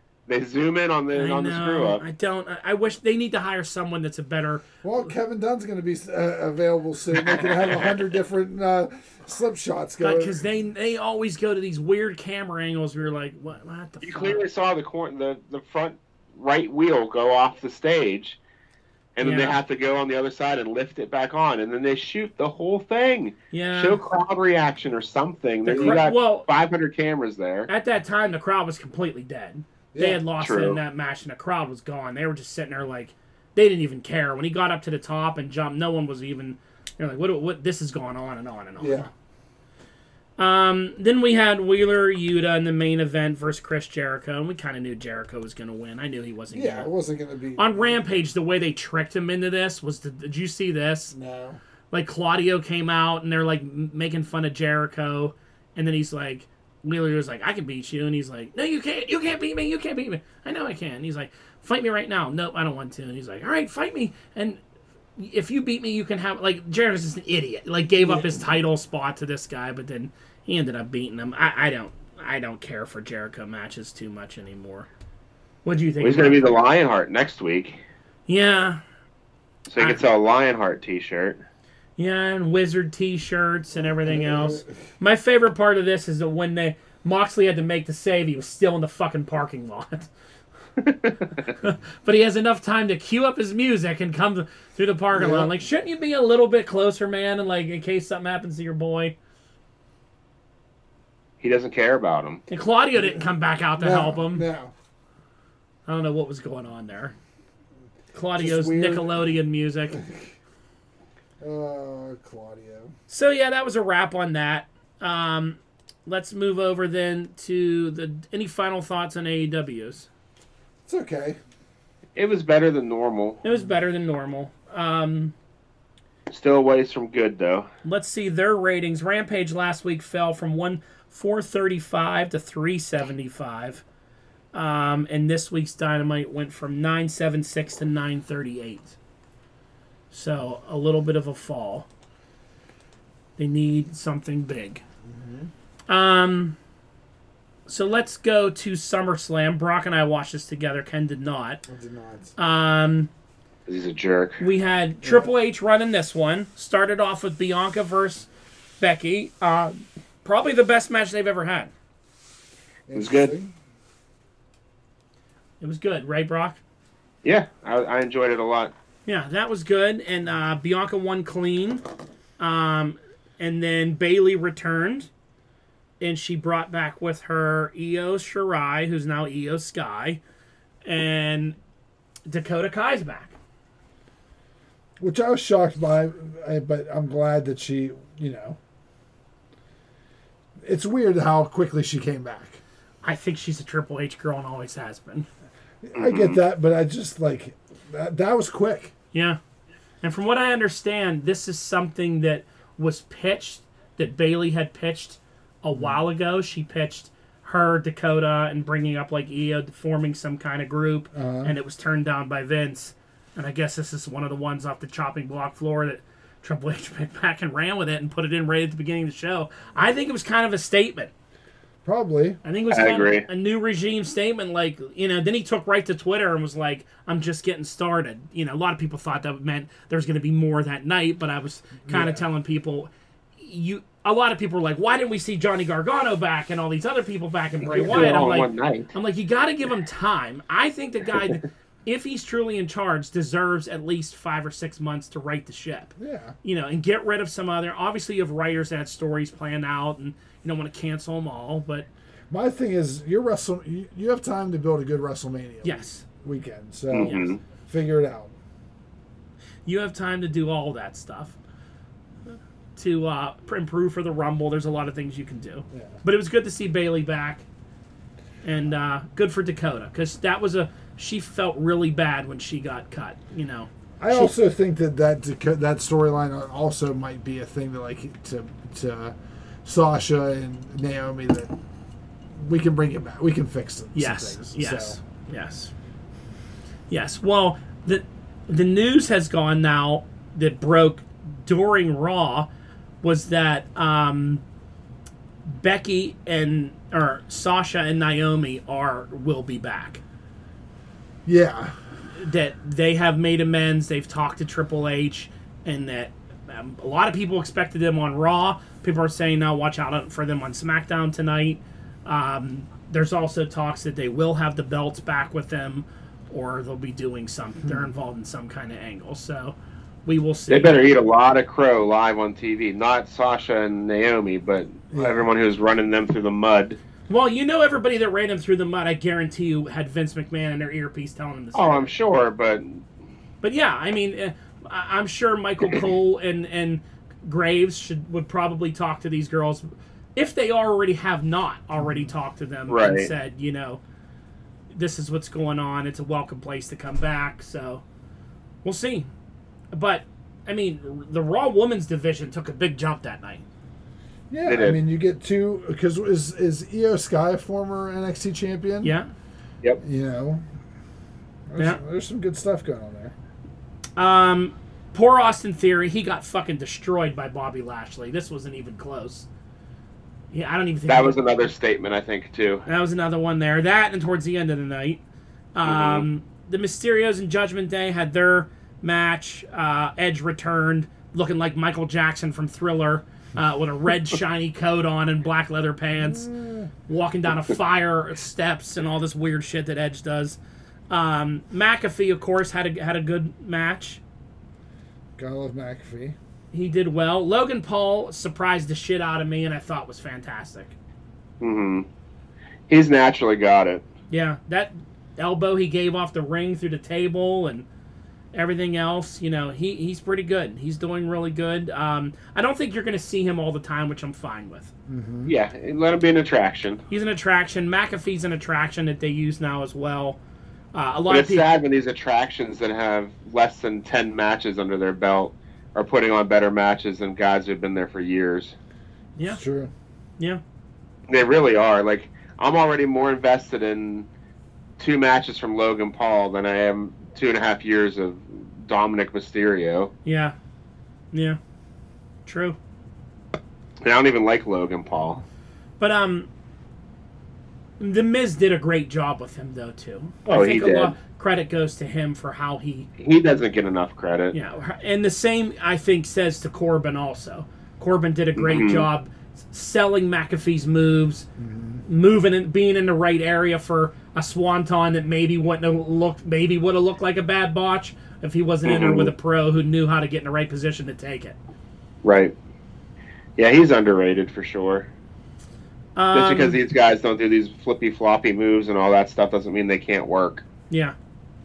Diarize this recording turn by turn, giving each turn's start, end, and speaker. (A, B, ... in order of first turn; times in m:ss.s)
0:00.3-0:02.0 A
0:01.1-0:04.8 B
0:04.8-0:10.4 C
0:07.2-0:07.9 A
0:10.0-0:14.4 B
0:14.0-0:18.4 A
0:19.2-0:27.7 A
0:19.2-0:19.6 B
0:23.5-0:24.0 B
0:25.6-0:26.4 B
0:25.7-0:26.0 C
0:27.7-0:39.1 B
0:29.9-0:30.2 C
0:30.4-0:30.8 A
0:38.8-0:39.1 C
0:40.4-0:46.9 B
0:46.5-0:48.0 C
0:47.6-0:51.1 B
0:51.1-0:51.6 C
0:51.9-1:04.6 B
1:05.2-1:14.9 B
1:15.6-1:16.5 B
1:16.0-1:17.8 A
1:18.3-1:18.8 B
1:19.7-1:21.4 A
1:22.0-1:30.1 B
1:24.0-1:24.7 C
1:30.8-1:31.1 A
1:31.6-1:39.1 B
1:35.1-1:35.5 C
1:41.4-1:42.4 A
1:42.5-1:44.4 B
1:43.8-1:44.7 C
1:45.8-1:47.1 B
1:48.1-1:50.0 B
1:48.4-1:49.1 C
1:50.0-1:50.3 C
1:51.4-1:52.9 C
1:53.1-2:00.1 B
2:00.8-2:01.4 C
2:02.2-2:03.4 A
2:03.4-2:05.3 B
2:06.3-2:07.7 A
2:07.8-2:13.8 B
2:14.5-2:19.0 B
2:20.1-2:21.8 B
2:23.4-2:24.8 B
2:25.1-2:25.5 C
2:25.9-2:26.6 B
2:27.7-2:31.6 B
2:31.7-2:32.3 C
2:32.4-2:33.1 B
2:33.7-2:34.4 A
2:34.4-2:38.3 B
2:35.0-2:35.3 C
2:38.8-2:41.7 B
2:42.9-2:43.5 C
2:42.9-2:43.3 A
2:45.6-2:46.6 B
2:47.2-2:48.7 A
2:49.0-2:51.8 B
2:52.4-2:55.1 B
2:56.0-3:00.2 B
3:00.8-3:01.6 B
3:02.3-3:03.4 B
3:05.0-3:08.6 C
3:10.6-3:12.6 C
3:13.0-3:15.3 B
3:15.8-3:18.9 C
3:15.9-3:16.4 A
3:19.1-3:19.4 B
3:20.0-3:41.1 B
3:31.1-3:31.5 C
3:41.8-3:42.4 C
3:42.4-4:11.9 B
3:42.7-3:43.2 A
3:51.9-3:52.2 C
3:57.6-3:58.9 A
4:06.0-4:06.4 C
4:12.3-4:18.3 C
4:15.6-4:16.0 B
4:16.9-4:17.4 A
4:17.0-4:17.3 B
4:19.6-4:21.4 B
4:22.8-4:27.4 B
4:25.7-4:26.0 C
4:28.4-4:34.3 B
4:34.0-4:41.5 C
4:42.4-4:45.0 C
4:43.9-4:45.7 B
4:46.9-4:52.5 B
4:53.0-4:54.4 B
4:55.4-5:00.0 B
5:01.2-5:01.7 C
5:02.1-5:20.8 B
5:20.5-5:26.8 A
5:24.9-5:25.3 C
5:27.1-5:31.9 B
5:31.5-5:32.8 A
5:33.4-5:43.8 B
5:42.7-5:43.1 A
5:44.7-5:47.8 B
5:48.6-5:49.1 B
5:49.7-5:53.4 B
5:54.3-5:58.9 C
5:54.4-5:54.8 A
5:58.8-5:59.1 B
5:59.8-6:00.4 C
6:01.5-6:03.1 C
6:04.0-6:09.3 B
6:10.3-6:11.2 B
6:10.9-6:12.6 A
6:12.6-6:15.0 B
6:15.5-6:26.3 B
6:15.6-6:16.0 A
6:26.0-6:26.7 C
6:26.9-6:30.4 B
6:30.9-6:34.0 B
6:35.2-6:36.2 C
6:36.5-6:40.8 B
6:41.4-6:41.9 A
6:42.7-6:43.8 A
6:44.1-6:47.6 B
6:48.3-6:54.7 B
6:54.9-6:55.3 C
6:55.2-6:56.8 A
6:56.9-7:00.2 B
7:00.7-7:01.5 B
7:01.1-7:08.5 A
7:09.2-7:09.7 C
7:11.1-7:14.1 A
7:14.8-7:19.9 A
7:20.0-7:20.3 B
7:21.1-7:21.4 B
7:22.2-7:22.6 B
7:23.8-7:25.2 A
7:25.8-7:26.3 B
7:27.8-7:32.9 B
7:30.2-7:30.9 A
7:33.0-7:34.3 A
7:34.3-7:41.3 B
7:38.4-7:38.9 A
7:41.4-7:41.8 C
7:41.8-7:51.4 B
7:48.6-7:49.1 A
7:52.0-7:52.3 A
7:53.4-7:54.9 A
7:56.0-7:56.6 B
7:56.1-8:00.4 A
8:00.7-8:00.9 B